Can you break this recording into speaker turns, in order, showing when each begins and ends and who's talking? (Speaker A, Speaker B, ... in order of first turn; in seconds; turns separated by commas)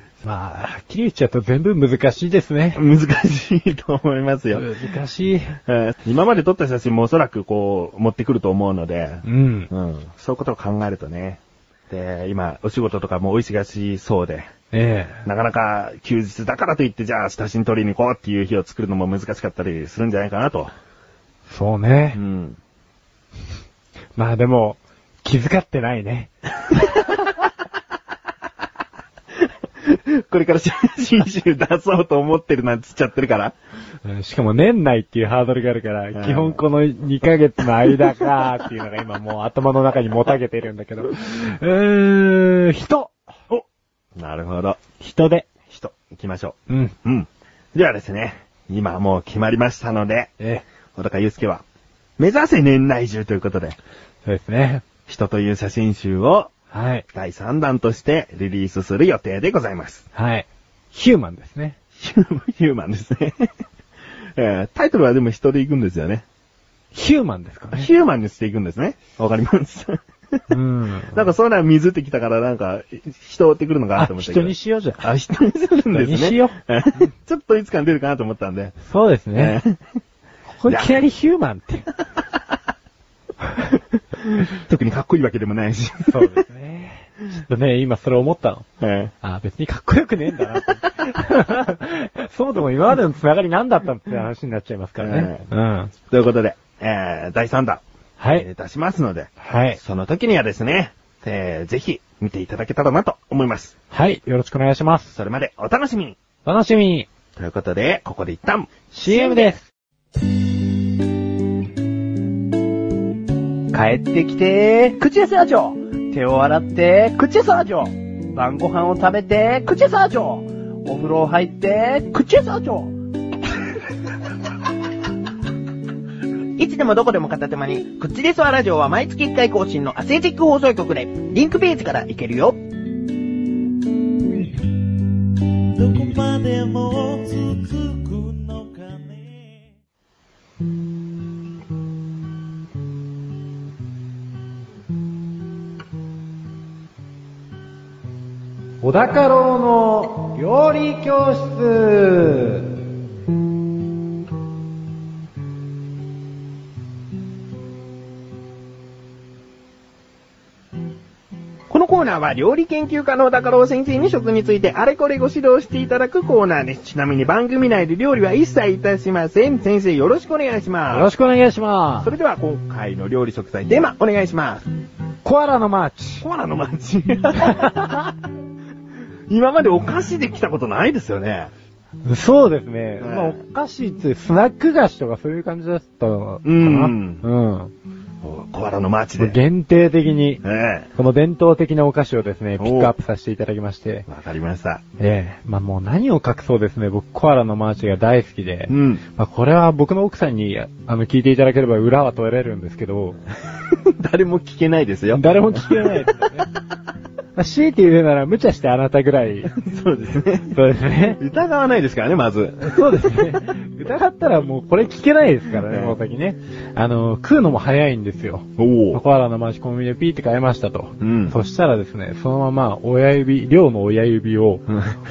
Speaker A: 0.2-2.8, Speaker B: 2.7-4.7, Speaker A: 4.5-5.5, Speaker B: 5.7-14.5, Speaker A: 9.2-9.7, Speaker A: 14.7-15.2, Speaker B: 15.2-20.7, Speaker A: 21.5-22.2, Speaker B: 22.1-22.6, Speaker A: 24.1-26.3, Speaker B: 29.4-33.5, Speaker A: 34.0-43.1, Speaker B: 36.1-36.6, Speaker B: 44.1-44.8, Speaker A: 45.0-45.5, Speaker B: 45.7-50.3, Speaker A: 46.7-46.9, Speaker B: 50.9-51.6, Speaker B: 52.2-53.8, Speaker A: 54.2-54.8, Speaker B: 55.1-56.5, Speaker A: 56.7-57.0, Speaker B: 57.1-60.0, Speaker A: 60.1-61.8, Speaker B: 62.0-63.5, Speaker B: 64.3-66.2, Speaker A: 66.9-67.9, Speaker B: 67.7-70.4, Speaker A: 70.5-71.2, Speaker B: 71.1-78.7, Speaker A: 74.0-75.0, Speaker A: 75.9-76.5, Speaker A: 78.8-79.6, Speaker B: 79.3-79.8, Speaker A: 80.6-81.9, Speaker B: 83.7-86.3, Speaker A: 86.1-88.7, Speaker B: 88.8-89.1, Speaker A: 89.2-95.9, Speaker B: 95.0-95.5, Speaker B: 96.1-97.8, Speaker A: 98.2-98.5, Speaker B: 98.3-103.7, Speaker A: 99.4-99.8, Speaker A: 103.9-105.1, Speaker B: 105.1-106.2, Speaker A: 106.4-107.1, Speaker B: 107.3-109.5, Speaker A: 108.9-109.6, Speaker C: 113.9-115.5, Speaker C: 116.0-122.8, Speaker B: 126.6-132.5, Speaker C: 128.7-132.3, Speaker D: 135.7-139.5, Speaker A: 148.8-152.7, Speaker B: 161.7-171.1, Speaker A: 170.9-172.1, Speaker B: 172.0-174.7, Speaker A: 175.2-176.2, Speaker B: 176.2-178.0, Speaker A: 177.4-177.9, Speaker B: 179.3-181.5, Speaker A: 182.0-187.7, Speaker B: 183.0-183.4, Speaker B: 186.4-187.2, Speaker B: 188.2-189.3, Speaker A: 189.2-190.4, Speaker B: 190.4-190.9, Speaker A: 190.9-194.1, Speaker B: 192.6-192.9, Speaker B: 194.1-194.8, Speaker A: 195.0-203.2, Speaker B: 198.7-199.0, Speaker B: 203.7-206.0, Speaker A: 205.1-206.5, Speaker A: 207.3-209.5, Speaker B: 209.5-210.6, Speaker A: 210.5-211.2, Speaker B: 211.2-212.7, Speaker A: 212.6-224.6, Speaker B: 215.7-216.0, Speaker B: 218.6-219.0, Speaker B: 221.0-221.3